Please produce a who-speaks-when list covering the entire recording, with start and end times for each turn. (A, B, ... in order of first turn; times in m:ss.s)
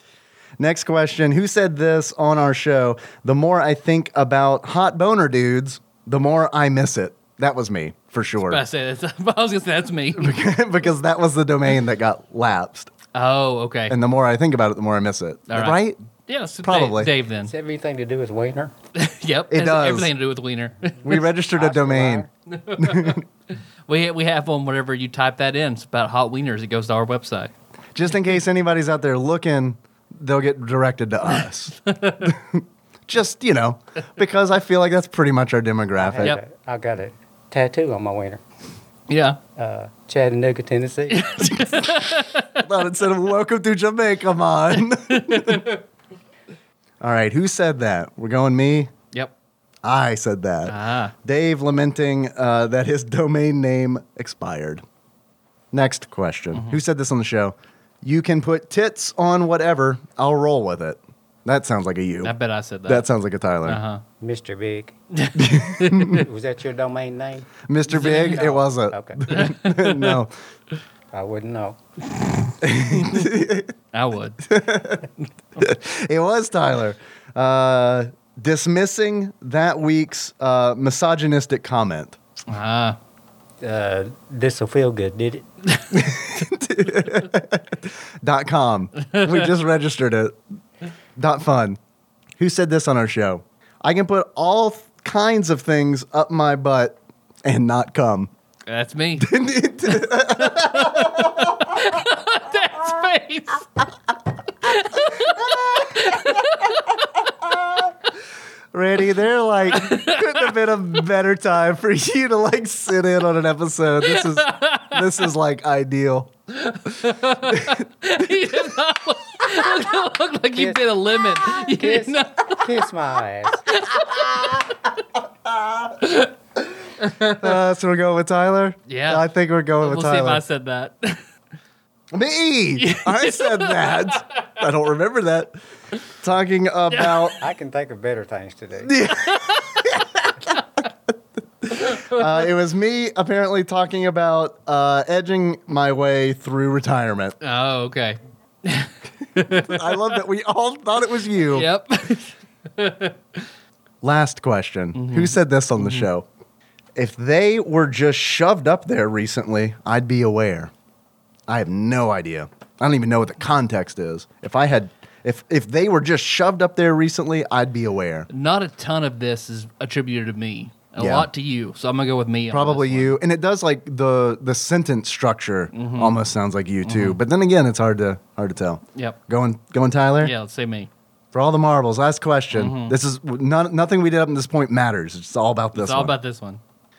0:00.6-0:08.6 A
0:08.4-0:10.4 B
0:10.2-0:12.9 A
0:13.1-0:14.0 B
0:13.9-0:16.0 A
0:15.5-0:17.5 B
0:16.6-0:17.1 A
0:17.4-0:18.7 C
0:19.0-0:21.2 B
0:19.5-0:20.1 A
0:21.0-0:23.2 A
0:21.5-0:22.3 C
0:22.5-0:23.2 B
0:23.9-0:27.5 B
0:27.9-0:36.4 A
0:31.9-0:32.3 B
0:36.0-0:38.4 C
0:39.1-0:39.4 B
0:39.6-0:41.3 C
0:41.1-0:42.6 B
0:41.4-0:45.7 A
0:44.9-0:45.8 B
0:47.0-0:48.9 A
0:49.8-0:54.8 A
0:50.6-0:51.1 B
0:55.7-1:02.3 A
0:56.5-0:56.8 B
1:02.2-1:03.0 B
1:02.8-1:03.8 A
1:03.6-1:04.0 B
1:04.2-1:04.9 C
1:05.1-1:06.2 B
1:05.4-1:06.2 A
1:06.0-1:09.2 C
1:07.7-1:10.3 A
1:07.9-1:08.5 B
1:09.3-1:10.2 B
1:11.1-1:11.8 C
1:12.6-1:13.7 A
1:13.9-1:14.4 B
1:14.4-1:22.2 A
1:22.5-1:23.0 B
1:23.6-1:25.5 C
1:25.9-1:30.4 A
1:29.0-1:29.4 B
1:31.2-1:31.8 A
1:32.4-1:38.3 A
1:38.7-1:39.3 B
1:39.2-1:41.5 A
1:39.9-1:43.8 B
1:44.6-1:47.0 B
1:45.2-1:46.1 A
1:47.4-1:47.9 A
1:48.7-1:56.3 A
1:49.7-1:50.5 B
1:54.0-1:55.2 B
1:56.5-2:02.8 B
1:57.5-1:57.8 A
2:00.5-2:03.6 C
2:03.7-2:04.7 B
2:06.0-2:06.3 B
2:07.0-2:07.5 B
2:07.4-2:10.4 A
2:08.9-2:09.2 B
2:09.8-2:11.2 B
2:12.1-2:15.6 A
2:12.8-2:14.2 B
2:16.2-2:17.4 A
2:16.9-2:17.4 B
2:17.4-2:19.0 C
2:18.8-2:20.3 A
2:19.3-2:19.8 B
2:21.6-2:27.4 A
2:21.8-2:22.3 B
2:27.4-2:30.2 B
2:29.4-2:31.7 A
2:31.5-2:33.4 B
2:34.0-2:36.2 A
2:34.9-2:36.1 B
2:37.0-2:40.7 A
2:41.5-2:48.3 A
2:48.3-2:53.2 B
2:51.0-2:51.3 A
2:52.5-3:00.3 A
2:55.7-2:56.2 B
2:56.8-2:57.2 B
3:00.2-3:00.9 B
3:01.3-3:06.2 A
3:02.5-3:03.0 B
3:05.7-3:06.6 B